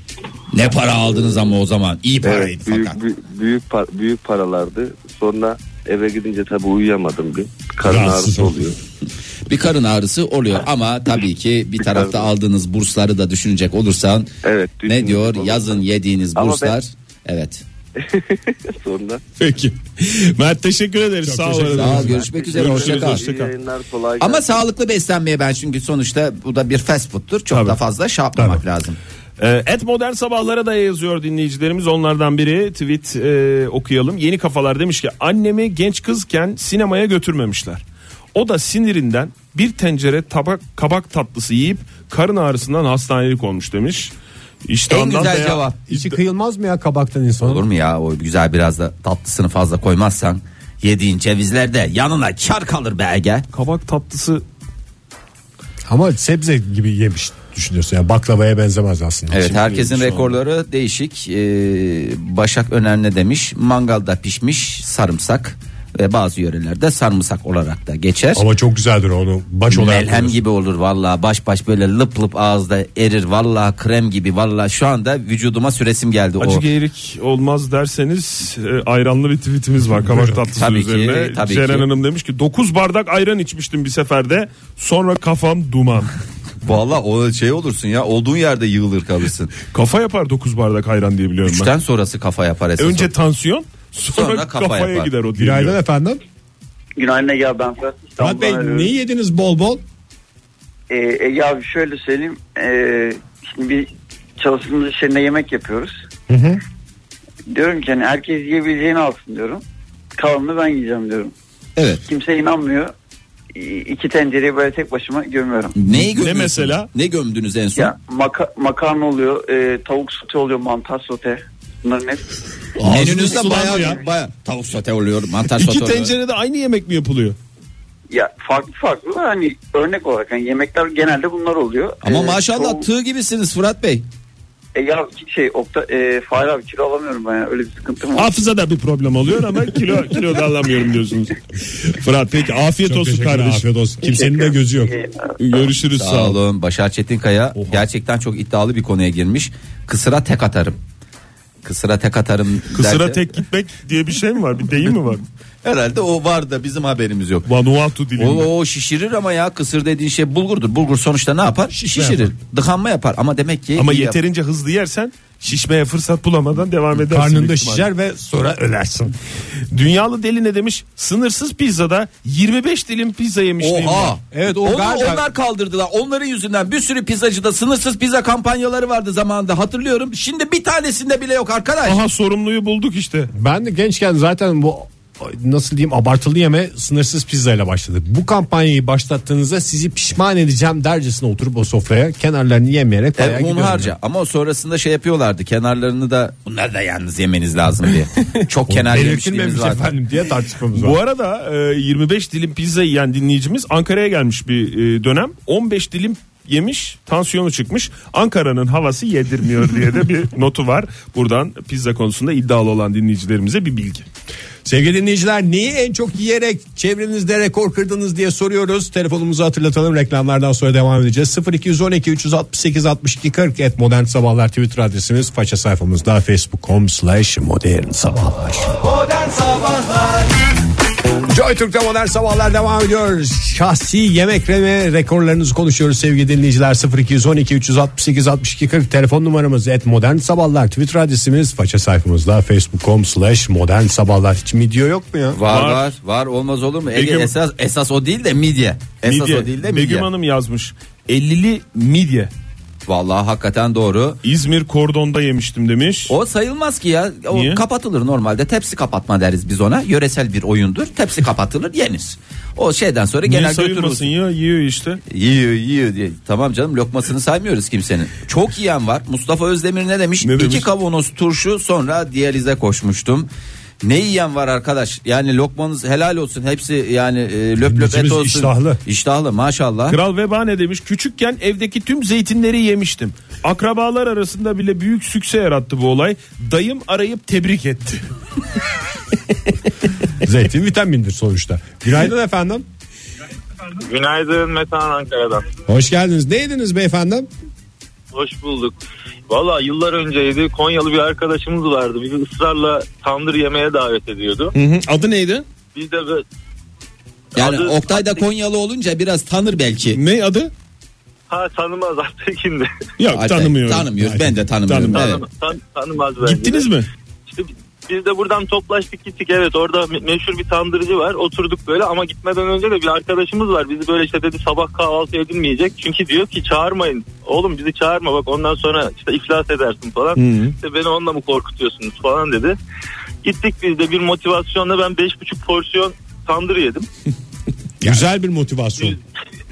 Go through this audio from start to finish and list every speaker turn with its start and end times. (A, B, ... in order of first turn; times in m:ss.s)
0:00.5-0:03.0 A
0:02.2-0:08.8 B
0:07.8-0:08.7 C
0:09.5-0:14.3 A
0:11.8-0:12.3 B
0:14.4-0:15.8 B
0:14.8-0:17.6 A
0:16.3-0:16.8 B
0:18.0-0:19.2 B
0:19.4-0:23.5 D
0:21.2-0:22.2 C
0:21.7-0:23.2 A
0:22.1-0:24.6 B
0:24.2-0:29.0 A
0:27.5-0:27.8 D
0:29.4-0:37.8 D
0:38.3-0:44.1 D
0:44.6-0:46.1 D
0:44.9-0:45.8 A
0:45.9-0:47.6 C
0:47.4-0:53.5 A
0:53.5-0:54.4 D
0:55.9-0:59.8 C
0:59.3-1:08.4 A
0:59.6-1:00.3 D
1:08.3-1:10.4 C
1:09.7-1:16.6 A
1:16.4-1:26.1 D
1:20.5-1:21.9 A
1:26.6-1:29.5 A
1:29.7-1:31.7 D
1:31.4-1:33.1 A
1:32.8-1:35.8 D
1:34.1-1:35.1 A
1:35.3-1:36.2 C
1:37.0-1:38.9 E
1:38.2-1:39.8 C
1:40.9-1:45.9 E
1:46.3-1:46.6 C
1:47.5-1:49.6 E
1:50.2-1:51.3 E
1:52.0-1:52.9 E
1:53.5-1:55.8 E
1:55.8-1:57.9 A
1:55.9-1:56.9 D
1:57.8-2:02.2 E
2:02.8-2:04.0 D
2:02.8-2:06.1 A
2:05.5-2:07.4 D
2:08.1-2:12.8 E
2:12.0-2:14.0 A
2:14.7-2:18.3 E
2:18.1-2:23.6 D
2:22.8-2:24.9 C
2:24.0-2:25.6 E
2:25.4-2:26.4 D
2:25.9-2:30.8 A
2:31.6-2:33.2 A
2:32.7-2:35.2 D
2:35.6-2:37.5 A
2:37.5-2:38.5 D
2:38.2-2:44.2 A
2:41.7-2:42.3 C
2:43.7-2:47.8 D
2:47.0-2:49.1 C
2:49.7-2:54.2 D
2:53.6-3:02.0 A
2:54.3-2:55.2 C
3:01.8-3:03.3 D
3:03.3-3:13.9 C
3:13.2-3:19.9 A
3:18.7-3:21.0 C
3:20.7-3:34.0 D
3:34.6-3:48.8 C
3:48.8-3:50.3 A
3:51.3-4:05.4 C
4:05.3-4:10.1 A
4:05.4-4:05.9 D
4:06.9-4:07.3 D
4:09.0-4:12.3 D
4:12.9-4:14.2 A
4:14.2-4:16.1 D
4:16.1-4:24.1 A
4:17.3-4:17.6 D
4:23.2-4:25.0 D
4:25.1-4:33.3 A
4:30.2-4:30.7 D
4:33.8-4:40.0 A
4:37.6-4:38.8 C
4:39.9-4:48.0 D
4:50.2-4:52.6 C
4:53.8-4:55.4 F
4:55.7-4:57.3 C
4:58.1-4:58.7 F
4:59.3-5:04.5 F
5:04.5-5:05.4 D
5:05.7-5:06.2 F
5:07.3-5:08.2 F
5:07.4-5:10.0 A
5:09.9-5:10.5 D
5:11.3-5:12.7 F
5:13.0-5:13.9 D
5:13.1-5:15.2 A
5:14.0-5:14.4 C
5:14.6-5:15.2 D
5:14.9-5:16.7 F
5:16.2-5:16.9 D
5:17.3-5:32.6 F
5:30.2-5:30.5 D
5:33.2-5:36.9 F
5:37.8-5:39.0 C